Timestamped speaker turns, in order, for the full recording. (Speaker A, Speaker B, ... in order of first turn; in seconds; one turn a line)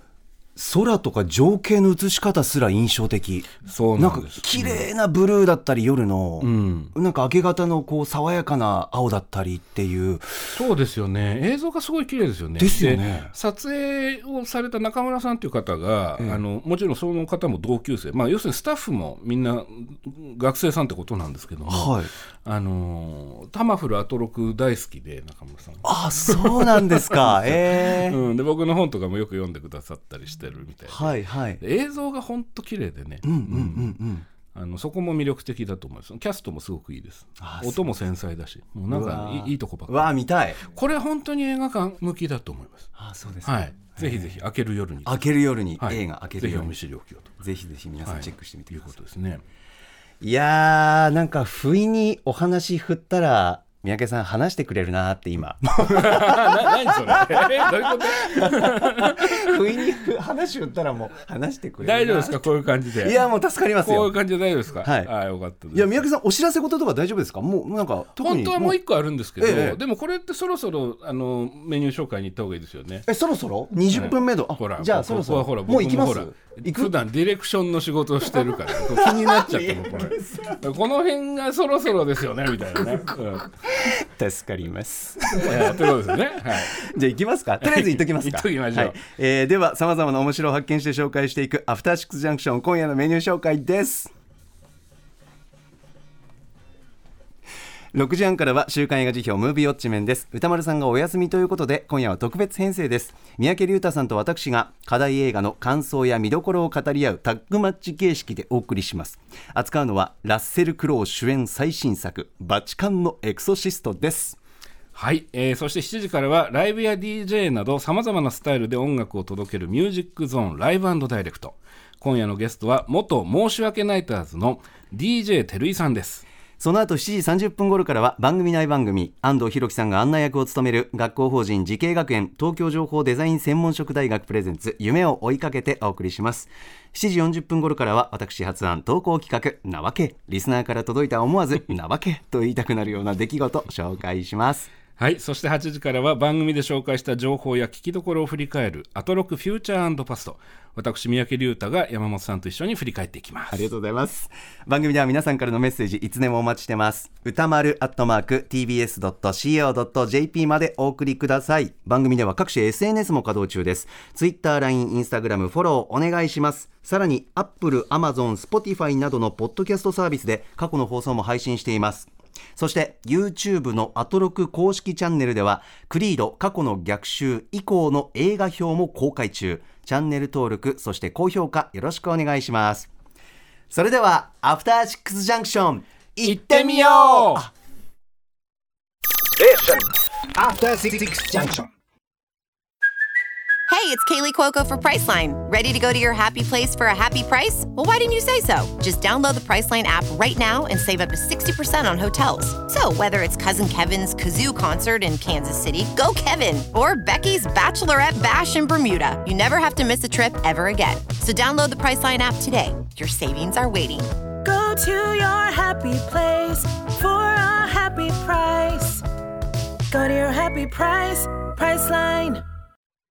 Speaker A: 0.6-10.6
Speaker B: 3.6-4.8
Speaker B: 6.4-6.9
Speaker B: 10.5-34.0
Speaker A: 12.6-13.3
Speaker A: 21.7-22.1
Speaker A: 25.8-28.2
Speaker A: 30.9-31.6
Speaker A: 33.2-34.3
Speaker B: 34.5-40.1
Speaker A: 37.4-37.9
Speaker A: 38.9-40.6
Speaker B: 40.7-42.9
Speaker A: 43.0-44.3
Speaker B: 43.5-47.3
Speaker A: 45.0-46.8
Speaker A: 47.4-49.0
Speaker B: 48.0-49.4
Speaker A: 50.2-64.2
Speaker B: 55.8-59.8
Speaker B: 61.8-63.2
Speaker B: 63.8-66.0
Speaker A: 64.8-65.1
Speaker A: 65.7-68.8
Speaker B: 68.2-73.1
Speaker A: 69.4-69.8
Speaker A: 73.1-76.9
Speaker B: 73.9-83.5
Speaker A: 78.5-80.6
Speaker A: 83.7-85.8
Speaker B: 85.3-86.9
Speaker A: 86.7-94.1
Speaker B: 87.6-89.0
Speaker A: 97.9-114.4
Speaker B: 114.9-126.2
Speaker A: 126.6-144.7
Speaker B: 145.0-153.7
Speaker A: 153.5-182.9
Speaker A: 183.7-187.5
Speaker B: 186.2-187.5
Speaker C: 189.4-189.8
Speaker C: 190.3-191.7
Speaker D: 193.7-214.1
Speaker C: 214.4-219.0
Speaker C: 219.9-222.4